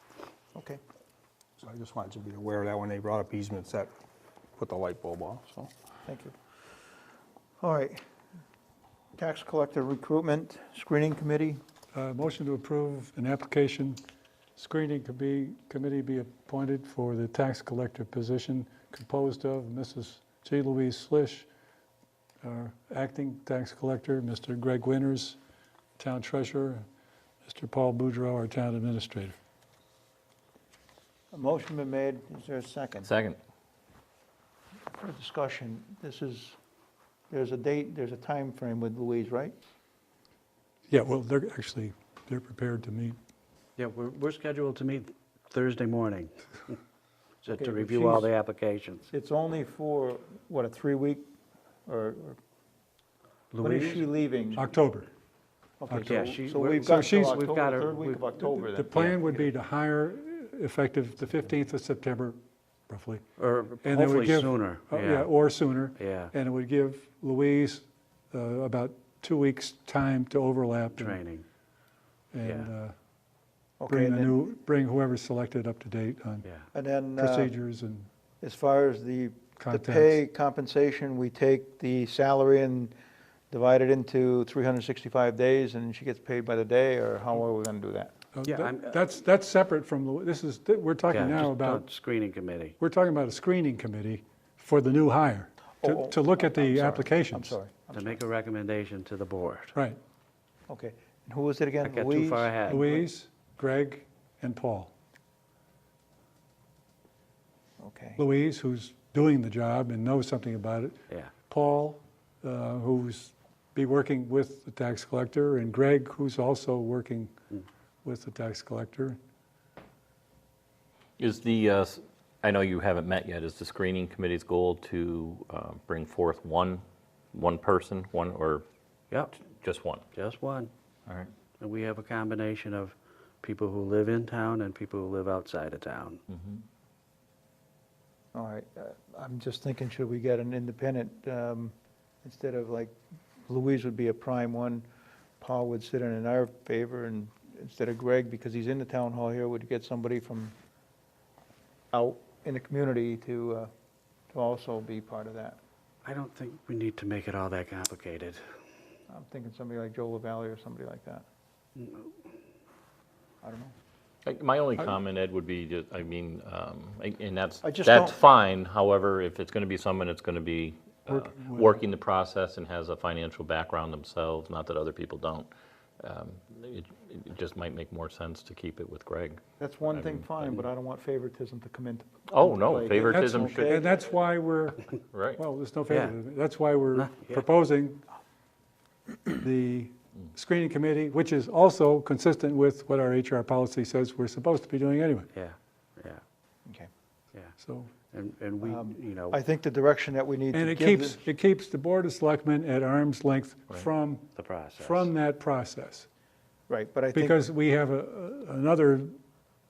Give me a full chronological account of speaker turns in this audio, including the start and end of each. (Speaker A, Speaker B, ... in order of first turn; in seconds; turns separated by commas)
Speaker A: 0.6-0.8, Speaker B: 1.6-3.9, Speaker B: 4.6-5.7, Speaker A: 6.1-6.3, Speaker A: 7.6-8.0, Speaker A: 9.2-11.6, Speaker C: 12.0-14.0, Speaker C: 14.6-21.5, Speaker C: 22.4-25.4, Speaker C: 26.0-26.9, Speaker C: 27.5-29.4, Speaker A: 31.3-33.1, Speaker D: 33.0-33.4, Speaker A: 34.9-36.6, Speaker A: 37.3-39.5, Speaker C: 40.9-43.2, Speaker E: 43.8-46.3, Speaker E: 47.4-49.1, Speaker A: 47.5-48.3, Speaker A: 49.1-51.2, Speaker A: 51.9-52.4, Speaker E: 53.5-54.0, Speaker A: 53.6-54.7, Speaker C: 54.6-55.1, Speaker A: 55.8-59.3, Speaker C: 55.9-56.2, Speaker E: 56.0-58.3, Speaker C: 56.9-57.3, Speaker C: 58.5-63.2, Speaker E: 58.9-59.2, Speaker E: 63.4-65.3, Speaker C: 63.8-71.2, Speaker E: 66.0-66.3, Speaker E: 71.0-71.5, Speaker C: 72.3-72.9, Speaker E: 72.4-72.7, Speaker A: 73.8-74.5, Speaker C: 73.9-76.5, Speaker A: 76.7-77.5, Speaker C: 77.2-78.1, Speaker A: 78.4-82.9, Speaker C: 79.6-80.2, Speaker A: 83.5-88.1, Speaker C: 88.4-91.8, Speaker E: 88.4-89.0, Speaker E: 91.1-92.8, Speaker C: 92.8-97.5, Speaker A: 95.8-98.2, Speaker E: 97.9-99.8, Speaker A: 100.7-103.1, Speaker E: 101.8-102.9, Speaker C: 102.7-104.9, Speaker A: 107.8-108.2, Speaker C: 108.2-111.0, Speaker C: 111.5-117.3, Speaker C: 118.1-119.2, Speaker D: 121.2-126.8, Speaker D: 127.3-128.7, Speaker E: 129.1-129.4, Speaker D: 129.6-130.0, Speaker E: 130.1-130.7, Speaker E: 131.6-136.2, Speaker D: 136.3-136.6, Speaker A: 138.3-142.9, Speaker A: 143.5-144.9, Speaker A: 145.4-150.6, Speaker A: 151.9-153.7, Speaker A: 154.3-155.6, Speaker E: 156.1-158.4, Speaker A: 159.1-161.2, Speaker A: 163.4-163.7, Speaker D: 164.3-175.5, Speaker A: 167.6-168.2, Speaker C: 171.1-171.8, Speaker D: 176.0-180.6, Speaker A: 179.6-184.0, Speaker D: 182.3-183.6, Speaker C: 183.1-184.8, Speaker D: 185.1-185.4, Speaker C: 185.4-188.0, Speaker E: 185.9-186.2, Speaker E: 186.9-187.4, Speaker C: 189.4-195.3, Speaker E: 195.3-196.2, Speaker C: 197.7-197.9, Speaker E: 198.1-199.4, Speaker A: 198.6-201.2, Speaker C: 200.5-204.3, Speaker E: 204.3-205.1, Speaker C: 204.8-206.1, Speaker A: 206.7-207.4, Speaker C: 207.1-209.2